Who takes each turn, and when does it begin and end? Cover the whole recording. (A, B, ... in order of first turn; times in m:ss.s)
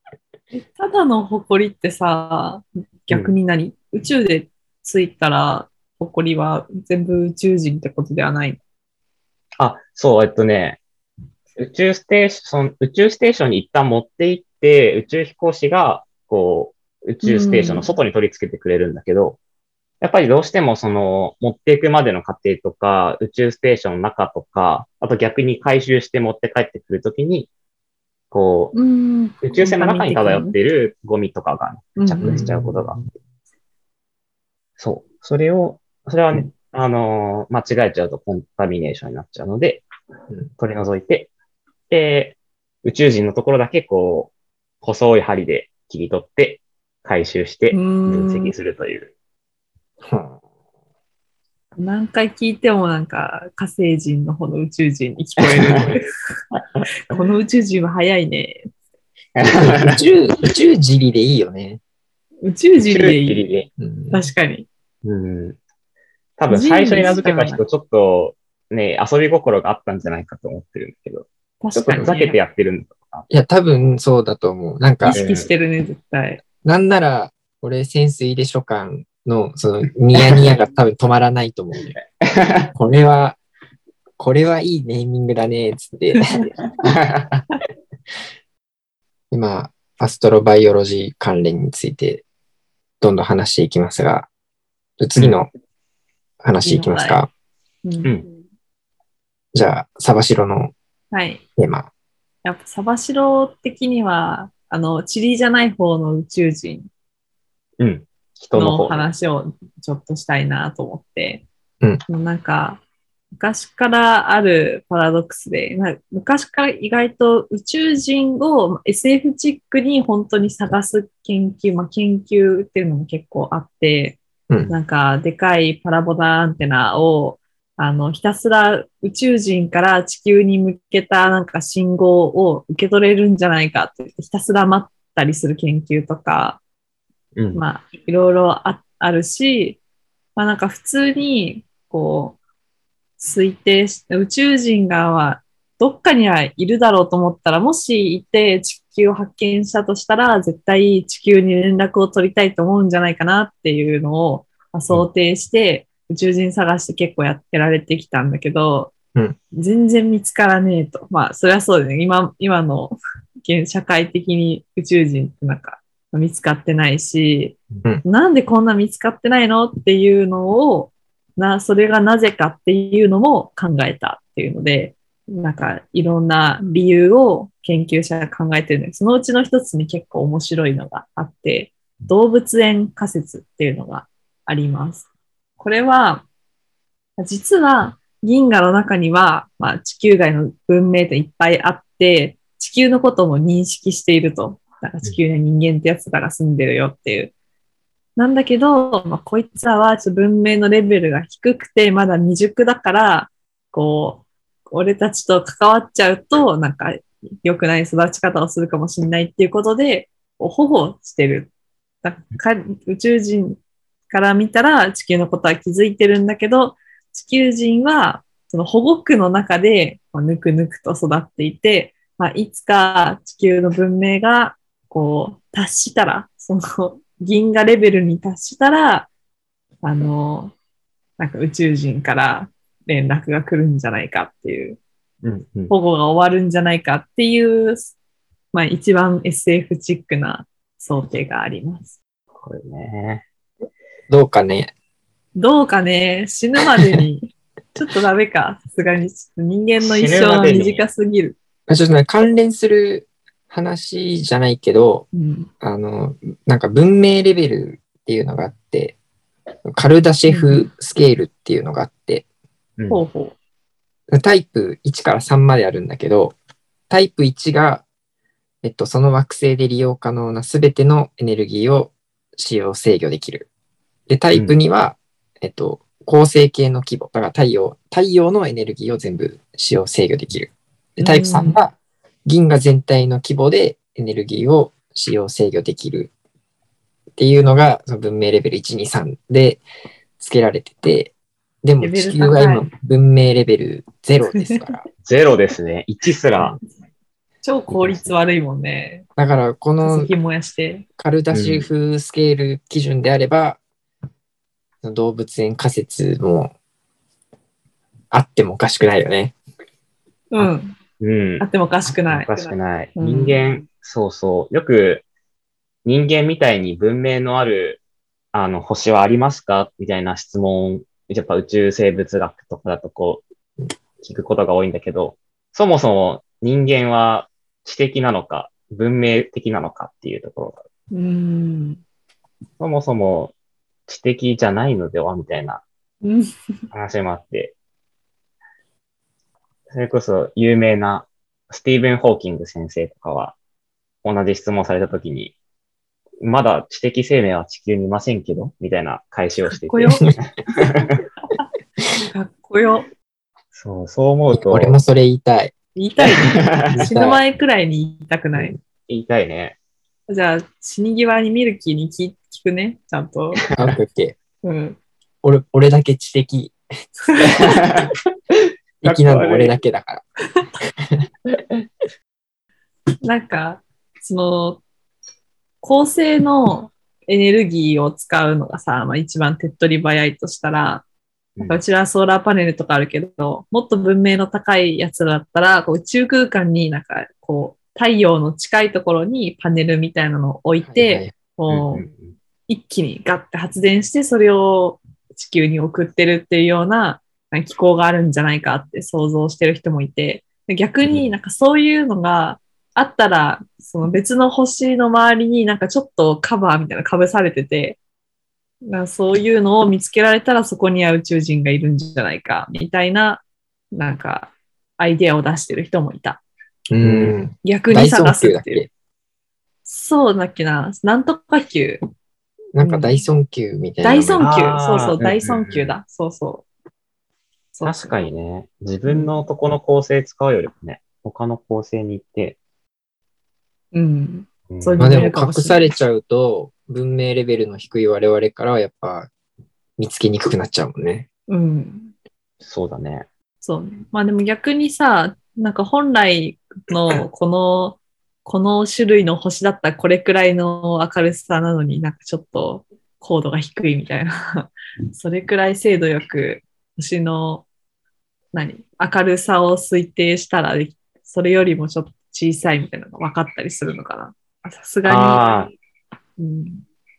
0:00.5-0:08.6 A
0:09.6-0:10.8 B
0:11.6-0:19.4 B
0:17.2-0:17.9 A
0:20.0-0:27.5 B
0:28.3-0:28.8 B
0:28.7-0:30.6 A
0:29.4-0:33.0 B
0:32.0-0:32.4 A
0:32.2-0:32.8 C
0:34.8-0:39.8 B
0:40.6-0:41.3 B
0:41.9-0:44.3 B
0:44.8-0:49.1 B
0:47.7-0:48.5 A
0:50.0-0:50.4 C
0:51.8-0:56.1 A
0:55.5-0:55.9 B
0:56.5-0:56.8 B
0:57.1-0:58.7 A
0:59.4-1:00.0 B
0:59.4-1:01.8 C
1:02.4-1:03.4 A
1:02.8-1:03.7 B
1:03.8-1:04.2 C
1:04.1-1:04.7 A
1:05.0-1:05.6 B
1:06.4-1:13.3 B
1:06.5-1:07.6 A
1:11.6-1:12.4 A
1:13.3-1:15.2 C
1:15.0-1:16.4 A
1:15.1-1:15.5 B
1:16.6-1:22.0 C
1:21.9-1:22.7 B
1:22.8-1:23.4 C
1:24.2-1:26.2 C
1:26.2-1:26.5 A
1:26.8-1:27.5 B
1:29.3-1:32.2 C
1:33.0-1:34.3 C
1:35.0-1:35.5 C
1:36.4-1:37.3 C
1:36.6-1:37.2 A
1:37.8-1:38.2 A
1:39.5-1:40.7 C
1:41.1-1:41.4 A
1:41.6-1:41.9 C
1:42.4-1:46.9 A
1:47.8-1:49.1 B
1:48.5-1:51.4 A
1:52.1-1:52.8 A
1:53.4-2:16.6 A
2:04.5-2:04.8 C
2:17.4-2:17.6 B
2:17.5-2:19.8 A
2:20.4-2:22.4 A
2:23.2-2:38.9 A
2:39.5-3:05.1 A
3:05.6-3:06.2 A
3:07.2-3:17.3 A
3:18.2-3:31.5 A
3:32.0-3:33.6 A
3:34.1-3:49.1 A
3:49.8-3:50.5 A
3:51.2-3:54.8 A
3:55.2-3:55.7 B
3:55.7-3:57.9 A
3:58.5-4:02.0 A
4:02.4-4:03.2 B
4:04.1-4:04.7 C
4:05.4-4:11.4 A
4:09.8-4:10.8 B
4:11.7-4:15.1 C
4:15.1-4:15.5 A
4:15.6-4:19.0 C
4:19.6-4:22.2 C
4:20.3-4:20.7 A
4:22.9-4:23.4 A
4:24.1-4:26.4 C
4:26.9-4:27.8 C
4:28.6-4:33.5 C
4:34.1-4:46.1 C
4:41.0-4:41.6 A
4:47.2-4:49.6 C
4:50.2-4:54.8 C
4:51.8-4:52.7 A
4:54.2-4:54.7 A
4:55.0-4:56.6 B
4:57.4-4:59.0 A
4:59.2-5:00.1 C
4:59.8-5:00.8 A
5:01.0-5:03.6 C
5:01.3-5:01.7 B
5:04.8-5:06.6 C
5:08.1-5:09.4 C
5:10.3-5:10.8 A
5:11.0-5:11.5 B
5:11.4-5:13.4 A
5:12.1-5:15.0 B
5:15.8-5:17.8 B
5:18.3-5:23.2 B
5:24.0-5:30.6 B
5:30.9-5:31.8 A
5:32.6-5:33.3 B
5:33.9-5:35.6 B
5:36.0-5:36.3 A
5:36.7-5:37.6 B
5:39.7-5:43.4 B
5:44.0-5:45.4 B
5:46.2-5:51.0 B
5:49.5-5:50.1 A
5:52.0-5:52.9 A
5:53.5-5:54.8 B
5:54.3-5:55.5 C
5:55.8-5:58.6 A
5:56.2-5:56.9 B
5:56.8-5:57.2 C
5:58.9-5:59.6 B
6:00.1-6:03.4 A
6:03.6-6:04.2 C
6:04.4-6:04.8 A
6:05.2-6:06.6 C
6:07.1-6:07.5 A
6:07.3-6:07.9 B
6:08.8-6:10.0 C
6:08.8-6:09.5 B
6:13.0-6:14.6 A
6:15.6-6:20.8 A
6:21.4-6:31.8 A
6:30.6-6:31.1 C
6:31.5-6:32.1 B
6:32.5-6:47.8 A
6:48.7-6:56.2 A
6:56.7-6:58.7 C
6:56.8-6:57.2 B
6:57.4-6:58.6 A
6:59.7-7:01.8 A
7:02.5-7:04.3 C
7:02.6-7:03.0 A
7:03.8-7:06.5 A
7:04.2-7:05.7 B
7:07.5-7:08.0 A
7:07.6-7:12.4 B
7:08.9-7:09.2 A
7:13.7-7:15.7 A
7:14.5-7:15.0 B
7:14.8-7:19.1 C
7:19.8-7:21.1 C
7:21.3-7:21.9 A
7:22.4-7:23.1 B
7:23.4-7:37.5 A
7:38.3-7:45.5 A
7:44.8-7:45.5 B
7:46.2-7:46.6 A